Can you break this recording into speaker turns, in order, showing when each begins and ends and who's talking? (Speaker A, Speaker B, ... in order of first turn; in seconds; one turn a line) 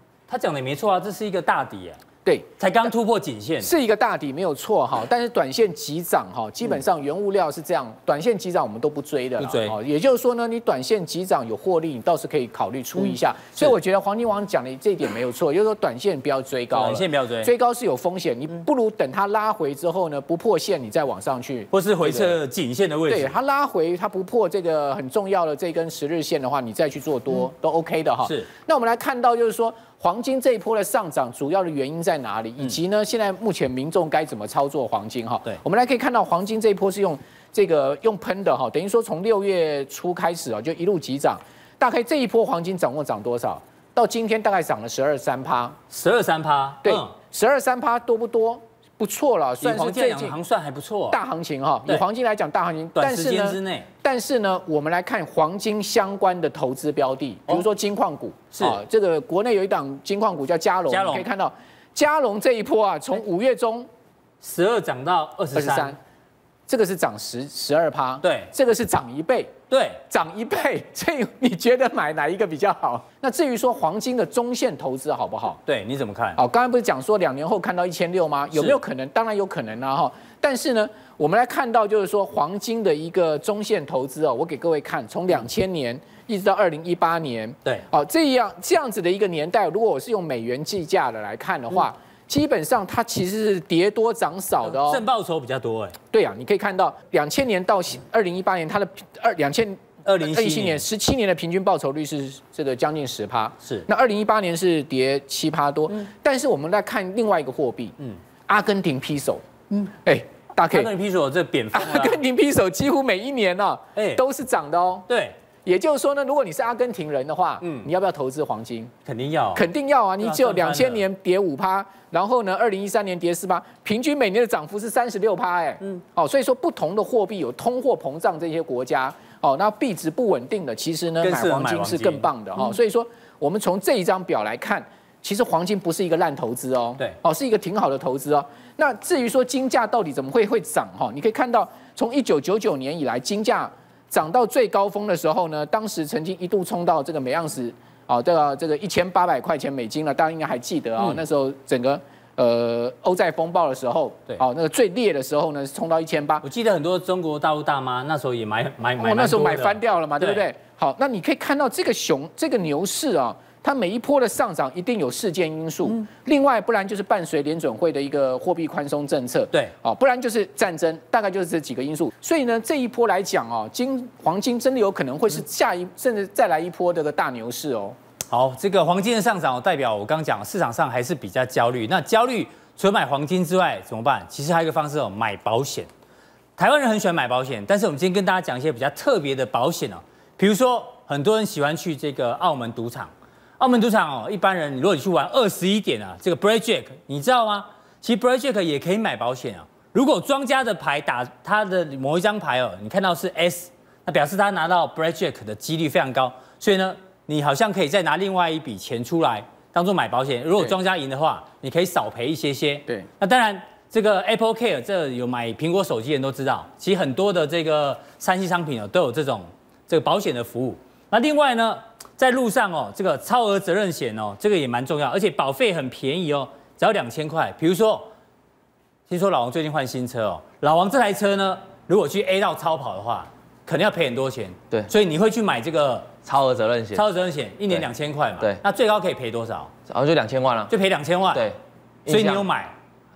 Speaker A: 0.3-2.0
Speaker B: 2.2-2.5
Speaker A: 2.6-3.7
Speaker B: 3.6-22.4
Speaker A: 9.4-9.8
Speaker A: 16.7-17.5
Speaker A: 21.7-23.3
Speaker B: 23.1-45.8
Speaker A: 45.9-47.1
Speaker B: 46.8-50.4
Speaker A: 49.6-51.2
Speaker B: 51.1-63.9
Speaker A: 53.0-53.9
Speaker A: 58.5-58.8
Speaker A: 60.9-61.2
Speaker A: 64.4-66.0
Speaker B: 65.5-66.0
Speaker B: 66.7-69.5
Speaker A: 68.2-68.5
Speaker A: 69.7-70.0
Speaker B: 70.1-75.6
Speaker A: 75.7-76.4
Speaker B: 76.4-95.0
Speaker A: 94.6-96.0
Speaker B: 96.1-110.9
Speaker A: 100.0-100.8
Speaker A: 110.7-112.2
Speaker B: 111.7-115.0
Speaker A: 114.0-114.2
Speaker A: 115.1-115.3
Speaker B: 115.6-118.9
Speaker A: 117.6-117.9
Speaker A: 119.0-119.7
Speaker B: 119.5-156.4
Speaker A: 120.2-121.0
Speaker A: 131.2-132.3
Speaker A: 156.4-160.4
Speaker B: 159.0-178.0
Speaker A: 178.3-185.9
Speaker A: 186.6-228.1
Speaker A: 229.1-236.1
Speaker C: 236.2-237.0
Speaker A: 236.9-239.7
Speaker C: 239.9-240.7
Speaker A: 240.7-241.5
Speaker C: 241.3-242.4
Speaker A: 242.1-242.7